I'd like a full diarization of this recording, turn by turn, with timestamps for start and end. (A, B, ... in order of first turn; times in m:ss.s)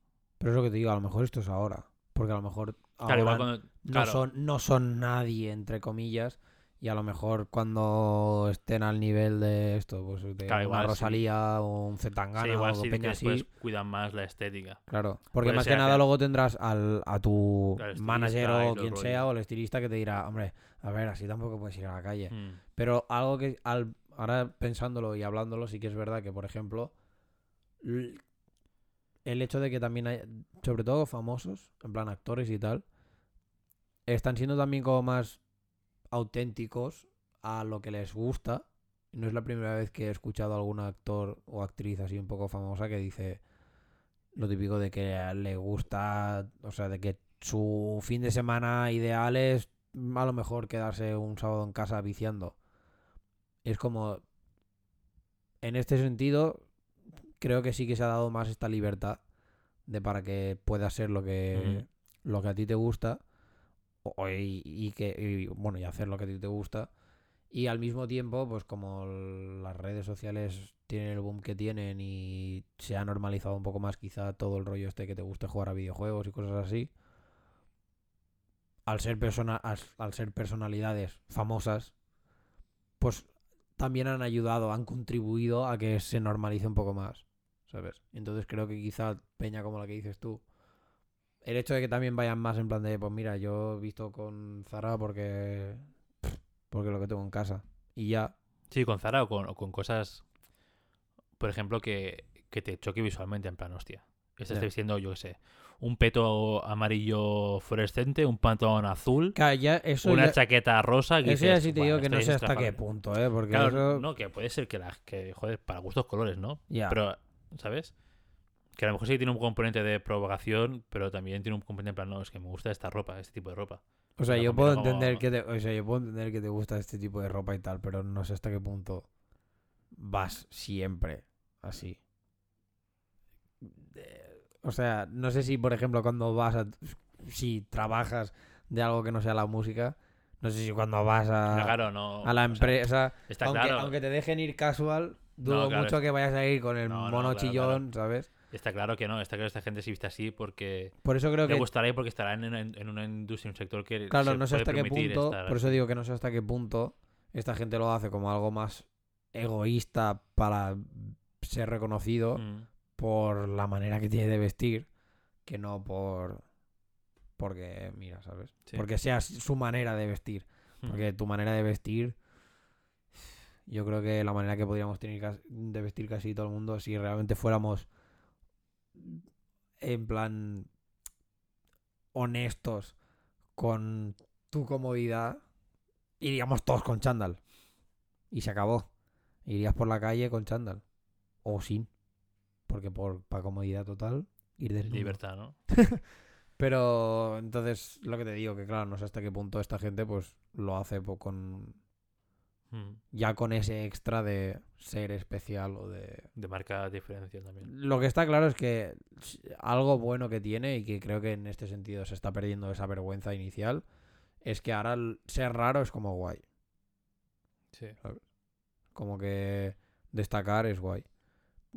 0:00.4-0:13.5 A
0:03.0-0:04.2 B
0:10.4-0:11.2 B
0:12.4-0:14.8 B
0:14.9-0:26.9 A
0:15.4-0:16.0 B
0:17.8-0:19.3 B
0:22.3-0:22.6 B
0:27.8-0:28.2 A
0:29.2-0:32.8 A
0:34.1-0:35.4 A
0:36.1-0:43.4 A
0:44.4-0:52.6 A
0:53.6-0:54.2 A
0:55.6-0:56.7 A
0:57.4-0:59.2 A
0:59.9-1:03.2 A
1:01.5-1:01.8 B
1:04.0-1:06.9 A
1:07.5-1:16.9 A
1:18.9-1:21.9 A
1:23.0-1:30.4 A
1:31.4-1:38.3 A
1:38.7-1:40.3 B
1:41.4-1:49.4 B
1:49.4-1:50.4 A
1:50.0-1:52.8 B
1:51.2-1:54.0 A
1:53.5-1:57.9 B
1:56.7-1:57.0 A
1:58.8-2:05.2 B
2:04.2-2:09.1 A
2:10.0-2:12.0 A
2:13.6-2:28.3 A
2:21.5-2:24.0 B
2:25.4-2:26.0 B
2:26.8-2:27.8 B
2:28.5-2:31.0 B
2:31.0-2:31.7 A
2:31.5-2:35.8 B
2:34.1-2:42.4 A
2:42.4-2:42.7 B
2:43.0-2:44.9 A
2:45.5-2:46.4 A
2:47.4-2:52.2 A
2:53.7-2:57.9 A
2:58.9-2:59.2 A
2:59.8-3:00.7 A
3:02.1-3:03.0 A
3:03.6-3:05.4 A
3:06.2-3:07.4 A
3:08.3-3:08.9 A
3:09.5-3:10.8 A
3:11.4-3:11.9 A
3:12.7-3:16.0 A
3:14.9-3:15.6 B
3:16.6-3:21.8 A
3:22.7-3:23.0 B
3:23.1-3:26.3 A
3:26.4-3:27.7 B
3:27.6-3:33.8 A
3:34.4-3:36.4 A
3:39.0-3:41.1 A